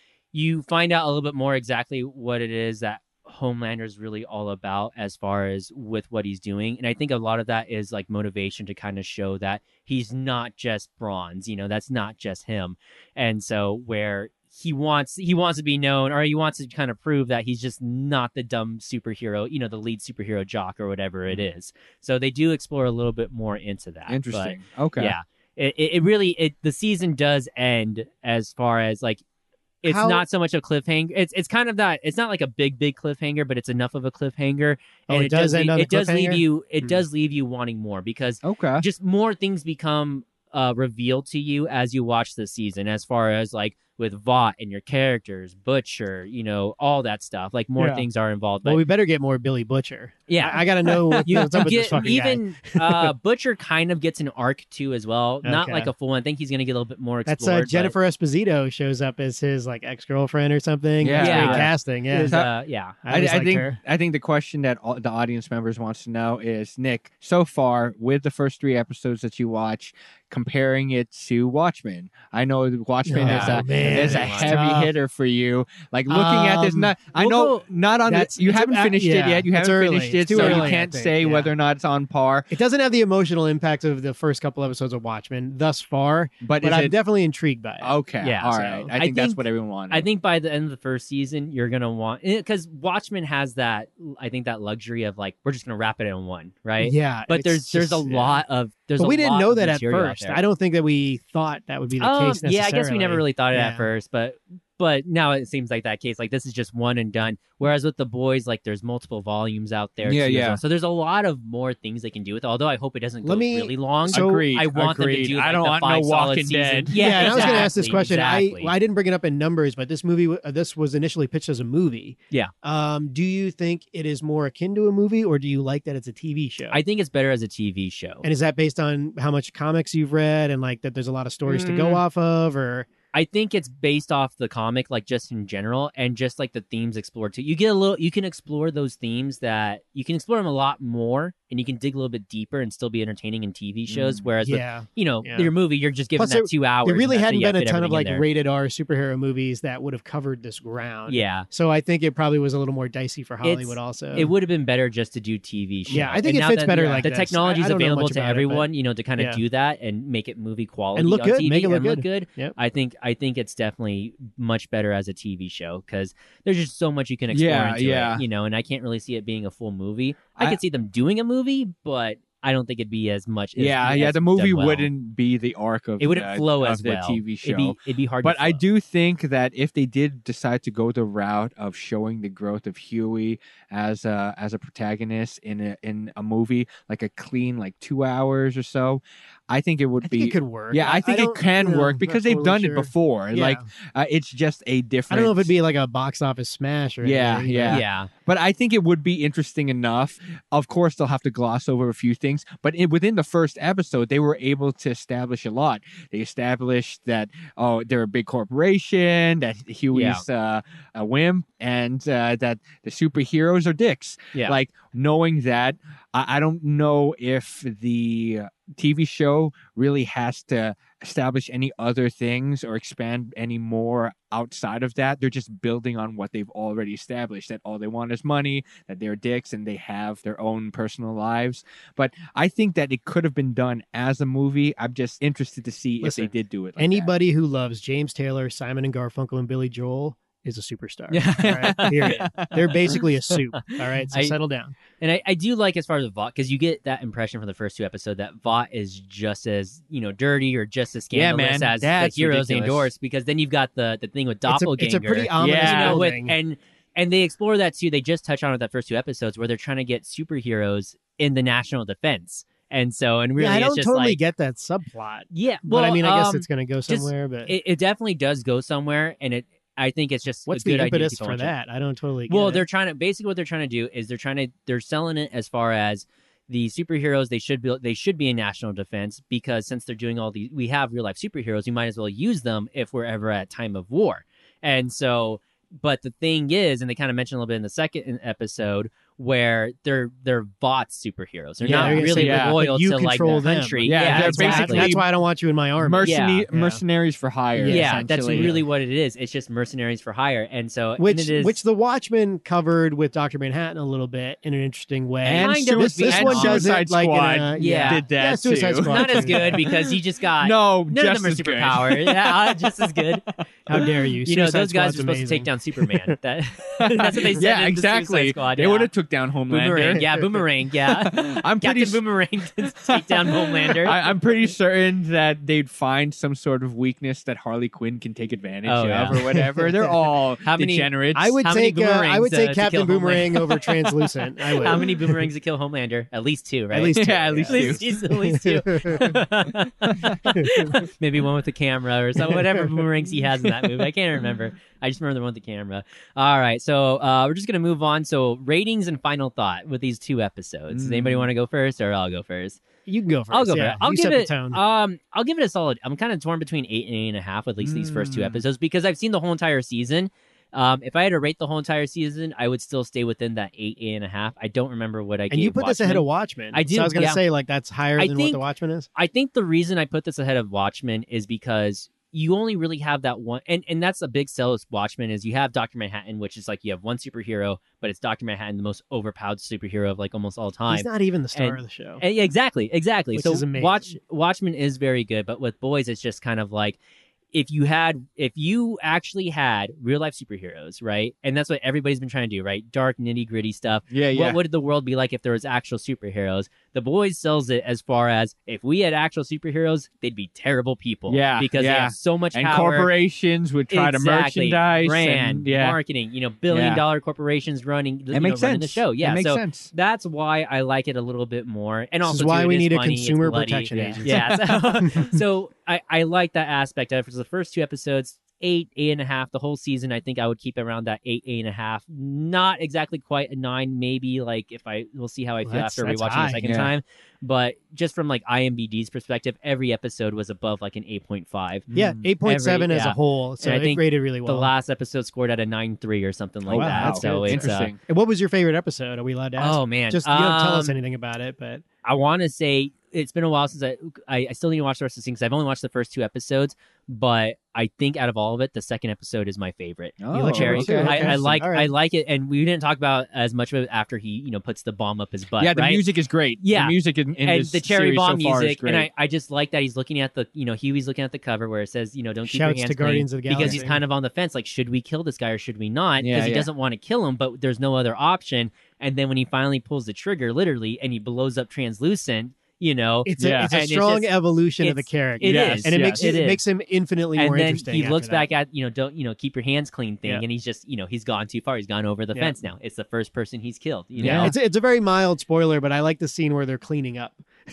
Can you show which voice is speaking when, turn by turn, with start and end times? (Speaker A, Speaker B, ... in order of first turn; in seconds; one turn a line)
Speaker A: 0.3-29.2
Speaker B: 24.1-25.1
Speaker A: 29.8-48.8
Speaker C: 29.8-30.2
Speaker C: 35.1-37.0
Speaker B: 38.4-38.8
Speaker B: 47.8-48.0
Speaker C: 48.6-53.1
Speaker A: 50.3-50.7
Speaker B: 50.9-51.8
Speaker A: 51.2-57.9
Speaker C: 55.4-55.9
Speaker C: 57.3-62.4
Speaker B: 61.0-62.5
Speaker A: 61.2-63.0
Speaker C: 63.0-63.8
Speaker B: 63.0-82.5
Speaker C: 73.0-74.9
Speaker A: 73.2-74.5
Speaker C: 76.1-77.5
Speaker C: 78.0-81.5
Speaker A: 80.3-80.7
Speaker C: 82.5-87.9
Speaker B: 86.4-87.0
Speaker B: 87.8-90.0
Speaker A: 88.2-100.4
Speaker C: 88.5-88.9
Speaker C: 96.8-98.4
Speaker C: 99.0-103.9
Speaker A: 102.0-118.7
Speaker B: 110.0-110.6
Speaker C: 113.2-114.5
Speaker B: 114.1-117.7
Speaker C: 117.0-126.8
Speaker A: 126.7-128.3
Speaker C: 128.2-132.9
Speaker A: 131.5-132.0
Speaker A: 133.1-148.2
Speaker B: 143.9-144.2
Speaker C: 144.4-145.5
Speaker C: 146.2-154.3
Speaker A: 151.1-151.5
Speaker A: 153.4-174.9
Speaker C: 155.9-159.4
Speaker C: 160.9-162.6
Speaker B: 167.3-168.2
Speaker B: 173.6-195.5
Speaker A: 176.0-178.6
Speaker C: 190.0-193.6
Speaker C: 195.1-197.8
Speaker B: 197.0-237.1
Speaker A: 197.7-198.1
Speaker A: 209.9-210.2
Speaker C: 236.0-244.7
Speaker A: 241.1-242.3
Speaker B: 241.4-243.0
Speaker A: 243.6-244.3
Speaker A: 245.0-264.2
Speaker B: 251.1-252.9
Speaker C: 254.5-256.3
Speaker B: 255.4-256.0
Speaker C: 263.4-267.5
Speaker A: 265.3-271.5
Speaker C: 270.5-272.6
Speaker A: 272.3-295.0
Speaker B: 291.6-292.6
Speaker C: 291.6-296.8
Speaker B: 293.8-295.0
Speaker B: 295.8-298.6
Speaker A: 296.0-296.4
Speaker C: 297.6-298.6
Speaker A: 297.6-301.6
Speaker C: 301.0-309.6
Speaker B: 305.2-312.8
Speaker A: 305.4-306.7
Speaker A: 307.6-308.1
Speaker A: 308.9-313.2
Speaker C: 313.7-316.1
Speaker A: 313.8-318.9
Speaker B: 316.8-322.0
Speaker A: 319.5-324.0
Speaker B: 322.8-331.4
Speaker A: 328.6-329.3
Speaker C: 329.3-329.9
Speaker A: 330.4-333.7
Speaker C: 331.1-334.8
Speaker A: 334.5-352.6
Speaker C: 336.7-339.1
Speaker B: 336.9-337.9
Speaker C: 342.3-342.7
Speaker B: 350.7-351.3
Speaker C: 352.9-354.6
Speaker A: 353.3-367.2
Speaker B: 357.6-358.4
Speaker C: 365.3-368.9
Speaker A: 368.0-368.4
Speaker A: 368.9-386.8
Speaker C: 380.7-382.0
Speaker C: 383.1-383.9
Speaker A: 387.3-402.9
Speaker B: 393.9-394.4
Speaker B: 401.1-405.8
Speaker A: 403.7-431.7
Speaker B: 406.5-406.8
Speaker B: 408.1-409.7
Speaker C: 412.0-415.2
Speaker B: 413.8-414.4
Speaker C: 425.4-426.4
Speaker B: 426.4-426.7
Speaker B: 431.7-432.0
Speaker C: 431.7-434.5
Speaker A: 432.2-437.7
Speaker B: 436.5-437.8
Speaker C: 436.5-441.6
Speaker A: 439.4-440.8
Speaker A: 441.8-455.8
Speaker B: 450.0-451.2
Speaker C: 450.1-451.7
Speaker B: 455.4-458.9
Speaker A: 456.4-476.4
Speaker C: 462.3-463.8
Speaker B: 463.4-463.6
Speaker B: 466.0-466.5
Speaker C: 473.1-478.3
Speaker B: 473.2-473.6
Speaker B: 475.2-476.1
Speaker A: 477.1-484.3
Speaker B: 483.9-484.3
Speaker C: 484.0-487.2